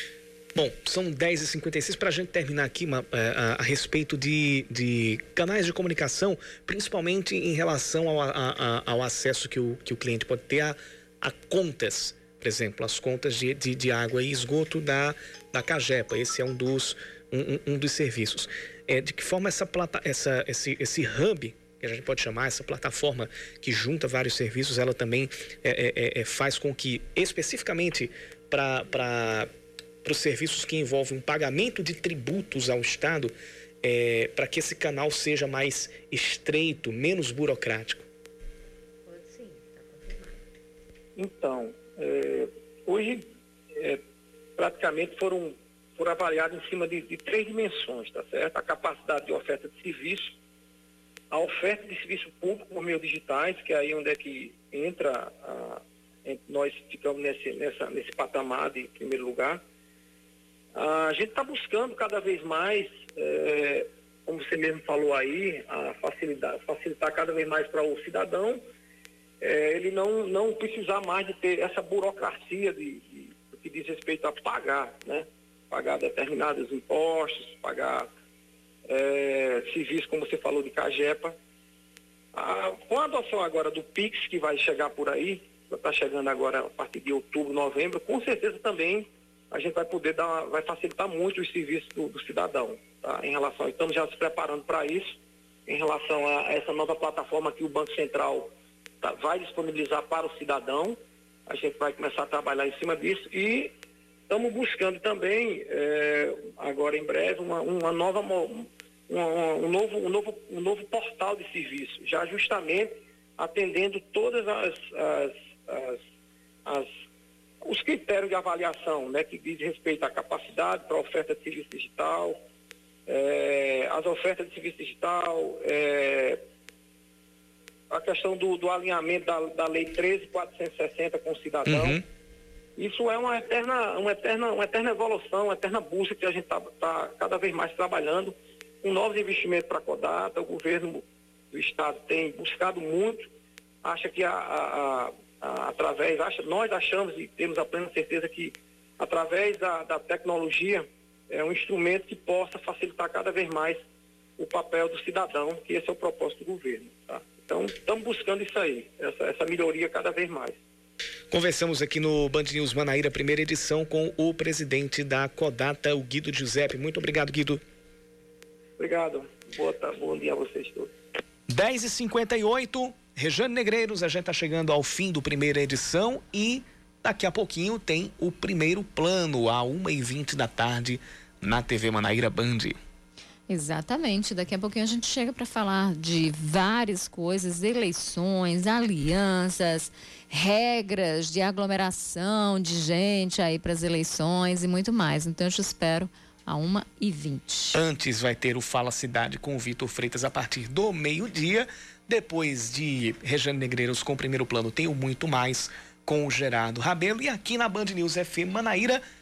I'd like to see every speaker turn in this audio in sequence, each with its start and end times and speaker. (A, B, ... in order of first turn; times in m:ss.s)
0:00.6-0:29.5 A
0:30.0-0:38.0 A
0:41.2-0:44.0 B
0:44.6-0:50.3 B
0:51.3-0:59.6 B
1:00.7-1:08.6 B
1:09.4-1:18.1 B
1:18.9-1:21.4 B
1:22.3-1:43.7 B
1:44.3-1:56.0 B
1:56.6-1:56.9 B
1:57.6-2:02.4 B
2:03.1-2:06.4 B
2:07.9-2:12.0 B
2:11.7-2:12.0 A
2:12.8-2:23.3 B
2:23.8-2:33.8 B
2:34.4-2:40.6 B
2:41.3-2:47.6 A
2:48.8-2:50.9 B
2:51.5-3:02.8 A
3:03.5-3:17.8 C
3:17.7-3:29.0 A